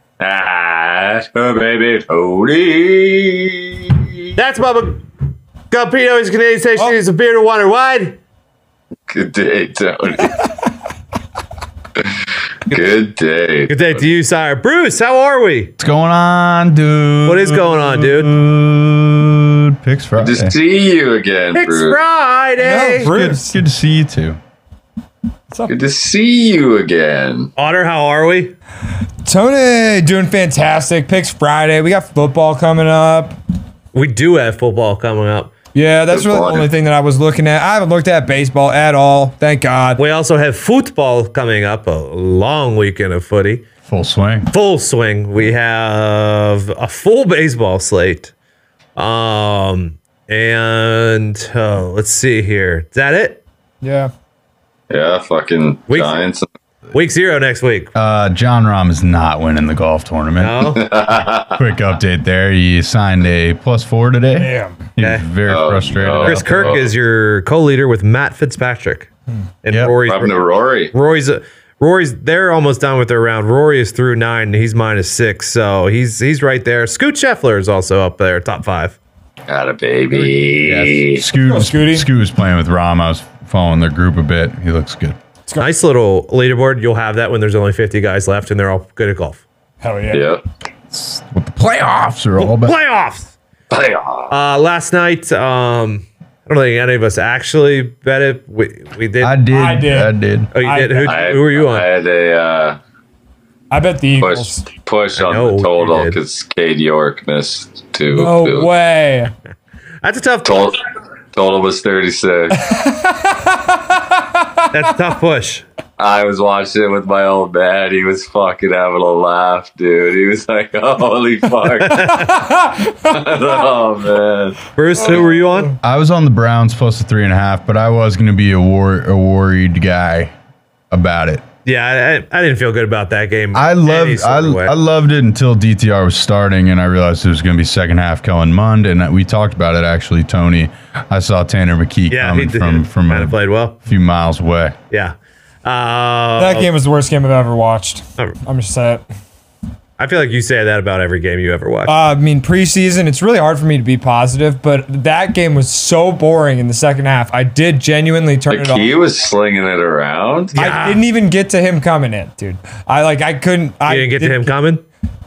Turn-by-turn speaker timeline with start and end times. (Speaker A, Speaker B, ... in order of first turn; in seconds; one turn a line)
Speaker A: 0.2-4.3
Speaker B: 4.4-5.0
Speaker B: 5.7-8.2
Speaker A: 9.1-10.4
Speaker A: 12.0-14.0
Speaker B: 13.7-15.7
Speaker C: 15.8-20.6
Speaker B: 17.2-18.3
Speaker A: 20.2-22.0
Speaker B: 21.5-23.1
Speaker D: 22.6-23.6
Speaker C: 23.0-24.4
Speaker A: 25.7-27.5
Speaker B: 27.6-28.6
Speaker D: 29.2-33.4
Speaker B: 33.9-35.5
Speaker D: 35.7-40.0
Speaker A: 36.1-36.7
Speaker B: 40.0-43.6
Speaker C: 43.9-44.5
Speaker B: 44.5-48.3
Speaker B: 49.0-53.4
Speaker D: 53.8-54.1
Speaker A: 54.9-56.5
Speaker B: 55.9-56.2
Speaker B: 56.9-57.9
Speaker C: 58.0-60.8
Speaker B: 60.4-60.9
Speaker A: 60.7-61.6
Speaker C: 61.5-66.8
Speaker D: 64.4-64.8
Speaker B: 65.0-65.3
Speaker A: 65.5-66.9
Speaker B: 66.2-69.1
Speaker B: 69.6-70.3
Speaker C: 69.7-70.0
Speaker A: 70.1-70.9
Speaker B: 70.9-79.0
Speaker A: 79.5-81.2
Speaker C: 80.1-85.2
Speaker D: 81.3-82.1
Speaker B: 85.6-89.4
Speaker D: 89.8-90.2
Speaker A: 90.1-90.4
Speaker C: 90.9-92.8
Speaker B: 92.4-93.3
Speaker A: 93.7-94.3
Speaker B: 94.3-99.4
Speaker C: 99.2-100.5
Speaker D: 99.5-101.2
Speaker B: 100.5-101.9
Speaker A: 101.0-102.8
Speaker D: 103.7-104.7
Speaker A: 104.2-108.7
Speaker B: 105.2-106.2
Speaker D: 108.1-109.3
Speaker B: 110.0-110.7
Speaker A: 110.5-110.8
Speaker A: 111.3-112.6
Speaker D: 112.5-114.7
Speaker B: 114.7-115.7
Speaker A: 116.0-122.3
Speaker B: 121.8-122.4
Speaker D: 122.1-123.2
Speaker A: 123.0-124.6
Speaker B: 124.8-125.8
Speaker C: 125.8-130.3
Speaker C: 130.9-131.4
Speaker B: 131.7-134.7
Speaker C: 133.5-143.3
Speaker B: 142.1-143.8
Speaker C: 143.9-144.8
Speaker B: 144.9-146.7
Speaker D: 146.4-149.0
Speaker B: 150.0-151.9
Speaker D: 151.9-158.9
Speaker A: 158.5-160.6
Speaker B: 160.5-161.0
Speaker D: 160.6-164.5
Speaker B: 163.9-164.8